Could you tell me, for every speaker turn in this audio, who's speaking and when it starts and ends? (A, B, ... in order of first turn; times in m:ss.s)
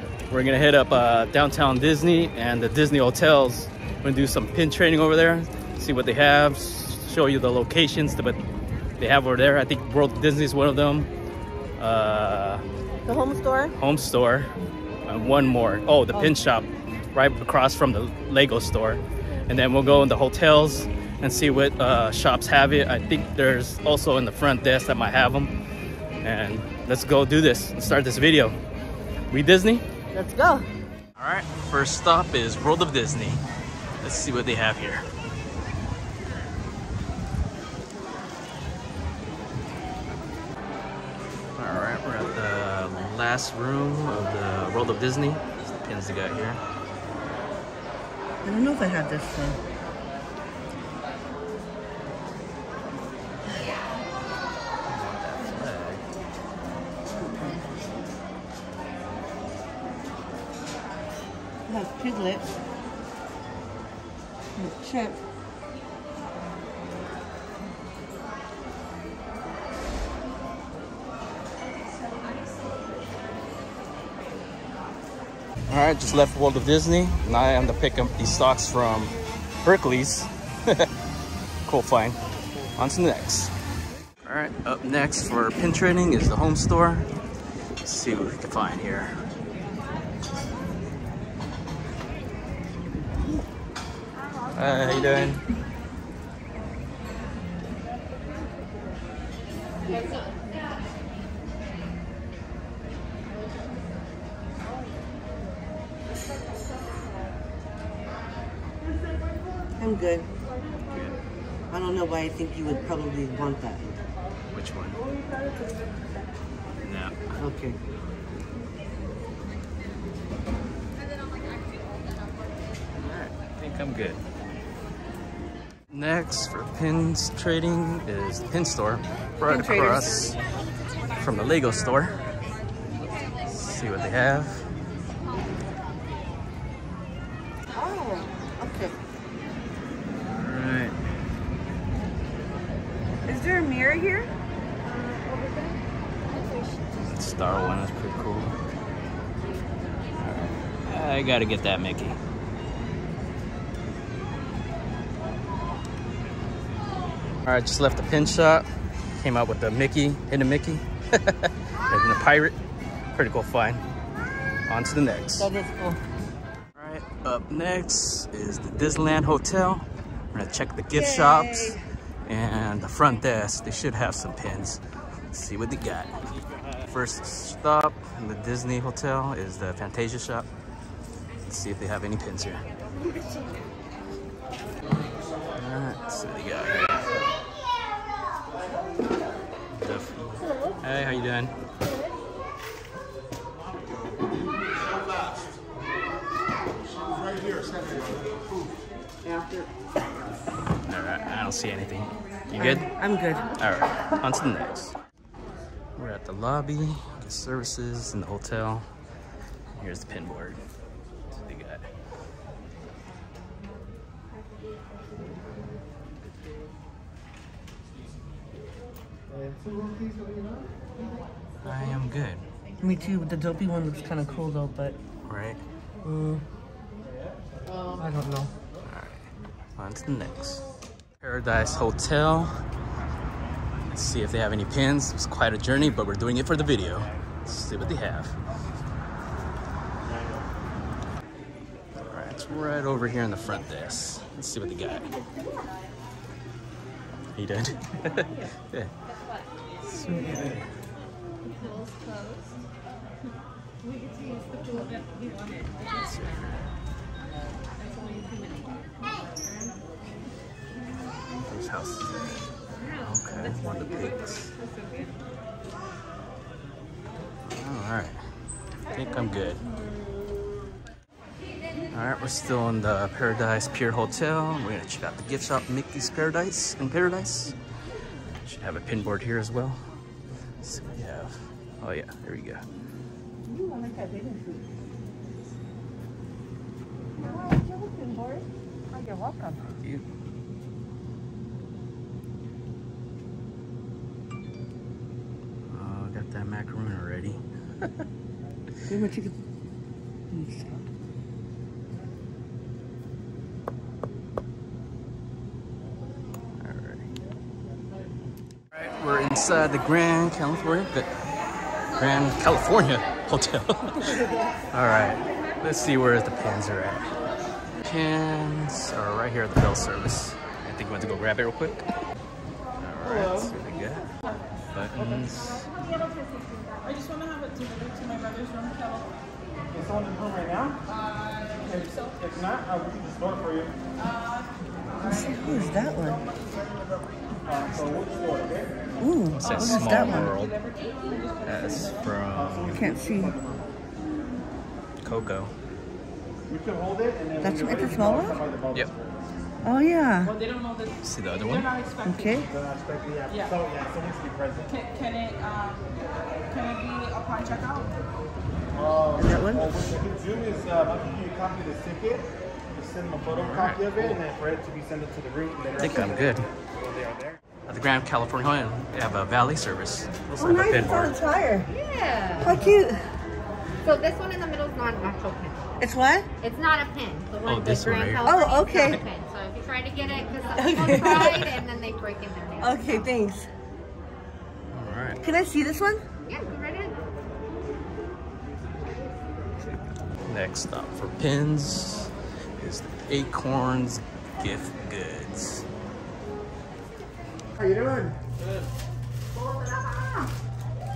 0:00.3-0:08.4 A
0:09.0-0:11.1 A
0:11.8-0:12.6 A
0:13.0-0:13.7 B
0:13.7-0:14.5 A
0:15.0-0:25.5 A
0:26.2-0:28.6 A
0:29.3-0:29.8 A
0:30.1-0:30.7 B
0:31.2-0:33.4 A
0:34.0-0:35.0 A
0:41.6-0:46.6 A
0:48.4-0:49.6 B
0:54.9-0:56.0 A
0:57.2-0:57.7 B
1:01.7-1:02.4 B
1:04.6-1:05.2 B
1:15.7-1:20.9 A
1:21.6-1:22.2 A
1:22.8-1:23.5 A
1:24.2-1:27.1 A
1:27.8-1:29.2 A
1:34.5-1:35.4 A
1:49.8-1:50.3 B
1:50.9-1:51.1 A
1:51.7-1:53.8 B
1:54.5-1:55.0 A
1:56.8-1:57.2 A
1:57.4-1:57.8 B
2:03.0-2:04.2 A
2:05.9-2:10.4 A
2:09.4-2:10.3 B
2:11.1-2:12.2 A
2:13.4-2:14.7 A
2:17.7-2:18.9 B
2:20.3-2:20.9 A
2:23.2-2:24.3 B
2:27.0-2:28.6 A
2:30.2-2:32.2 A
2:37.4-2:42.6 A
2:43.1-2:43.8 A
2:44.7-2:45.5 A
2:45.4-2:46.0 B
2:46.7-2:56.2 A
2:50.9-2:51.8 B
2:56.8-3:00.5 A
3:01.4-3:02.6 A
3:05.6-3:07.2 A
3:09.7-3:11.5 A
3:19.2-3:19.7 B
3:20.8-3:22.9 A
3:22.5-3:23.5 B
3:23.6-3:24.9 A
3:26.0-3:28.8 A
3:29.7-3:30.6 A
3:31.3-3:31.9 A
3:39.6-3:39.9 C
3:41.6-3:42.5 A
3:42.8-3:45.0 B
3:45.2-3:45.6 A
3:46.0-3:46.4 B
3:48.0-3:48.5 B
3:48.8-3:49.2 A
3:49.8-3:50.6 A
3:51.2-3:52.6 A
3:53.9-3:58.3 A
4:02.0-4:05.1 A
4:07.3-4:08.9 A
4:09.8-4:10.6 A
4:15.8-4:16.7 A
4:21.4-4:22.2 A
4:23.0-4:24.5 A
4:27.4-4:28.2 A
4:28.9-4:29.6 A
4:31.9-4:37.6 A
4:38.4-4:39.8 A
4:40.6-4:42.6 A
4:43.5-4:44.6 B
4:47.2-4:49.7 B
4:55.7-4:57.9 A
4:58.9-4:59.4 B
5:00.3-5:00.8 B
5:06.6-5:07.1 A
5:08.7-5:11.1 A
5:12.0-5:17.1 A
5:17.8-5:21.8 A
5:22.8-5:24.1 A
5:23.0-5:23.5 C
5:24.7-5:25.7 A
5:26.8-5:29.0 D
5:29.7-5:30.8 C
5:31.6-5:33.7 C
5:35.0-5:36.2 B
5:37.4-5:38.8 C
5:39.0-5:40.4 B
5:39.4-5:40.6 A
5:40.2-5:41.2 D
5:41.4-5:42.9 A
5:42.3-5:43.7 C
5:42.7-5:43.4 B
5:45.0-5:45.5 A
5:46.5-5:49.2 C
5:47.4-5:48.4 B
5:49.6-5:50.4 B
5:51.0-5:51.7 A
5:52.0-5:52.5 B
5:52.4-5:54.8 C
5:55.1-5:55.8 D
5:56.6-5:57.8 D
5:58.7-6:06.2 C
5:59.2-5:59.8 B
6:03.2-6:04.2 A
6:05.8-6:06.5 A
6:06.8-6:07.4 C
6:07.7-6:11.2 A
6:10.3-6:11.7 B
6:11.7-6:12.6 E
6:12.4-6:13.0 B
6:13.8-6:15.6 E
6:15.8-6:16.3 B
6:16.4-6:23.1 E
6:17.4-6:18.3 A
6:18.2-6:19.0 B
6:20.5-6:21.5 B
6:20.9-6:21.5 A
6:22.6-6:23.5 B
6:24.7-6:25.2 A
6:25.2-6:26.0 B
6:26.3-6:27.0 E
6:30.2-6:35.6 A